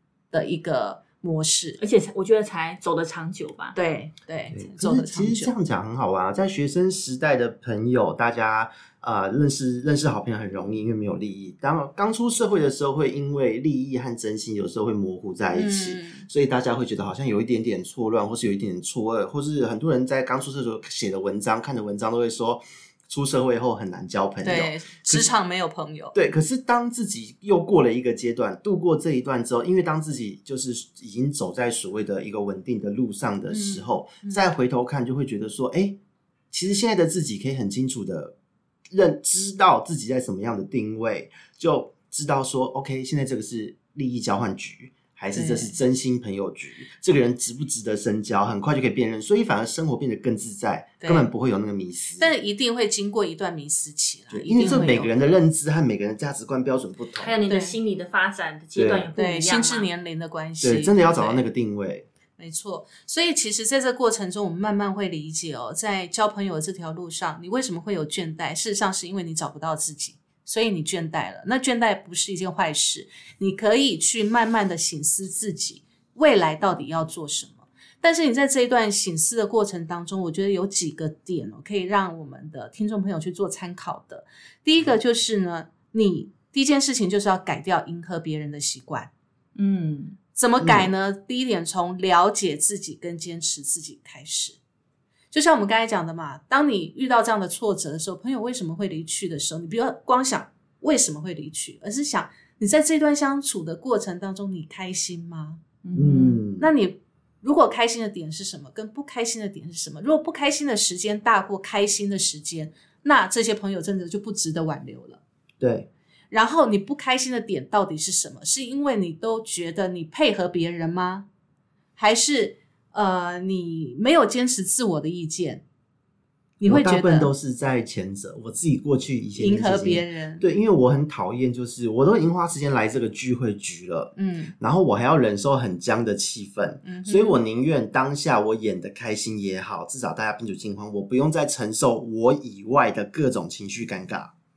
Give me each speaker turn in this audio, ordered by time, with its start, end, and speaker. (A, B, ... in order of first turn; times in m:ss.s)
0:00.3-0:01.8 A
0:01.8-0:03.8 B
0:03.8-0:05.5 A
0:04.5-0:25.3 C
0:15.5-0:16.3 A
0:24.4-0:26.2 A
0:26.1-0:36.0 C
0:33.5-0:34.4 A
0:36.5-0:38.3 C
0:38.9-0:52.3 C
0:45.3-0:45.8 A
0:51.0-0:51.3 A
0:52.2-0:55.1 A
0:54.3-0:57.3 C
0:57.2-0:59.9 B
0:57.5-0:57.8 A
0:58.8-0:59.1 C
0:59.2-1:01.5 A
1:00.6-1:02.1 C
1:02.4-1:29.1 A
1:29.6-1:30.2 B
1:30.4-1:34.6 A
1:30.6-1:30.9 C
1:35.3-1:45.6 A
1:45.8-1:46.4 B
1:46.0-1:46.7 C
1:46.6-1:55.2 A
1:55.6-1:55.9 C
1:56.3-2:01.3 A
2:02.0-2:05.6 A
2:06.6-2:07.3 A
2:06.7-2:24.3 C
2:09.4-2:10.4 A
2:14.2-2:14.5 A
2:16.8-2:17.4 A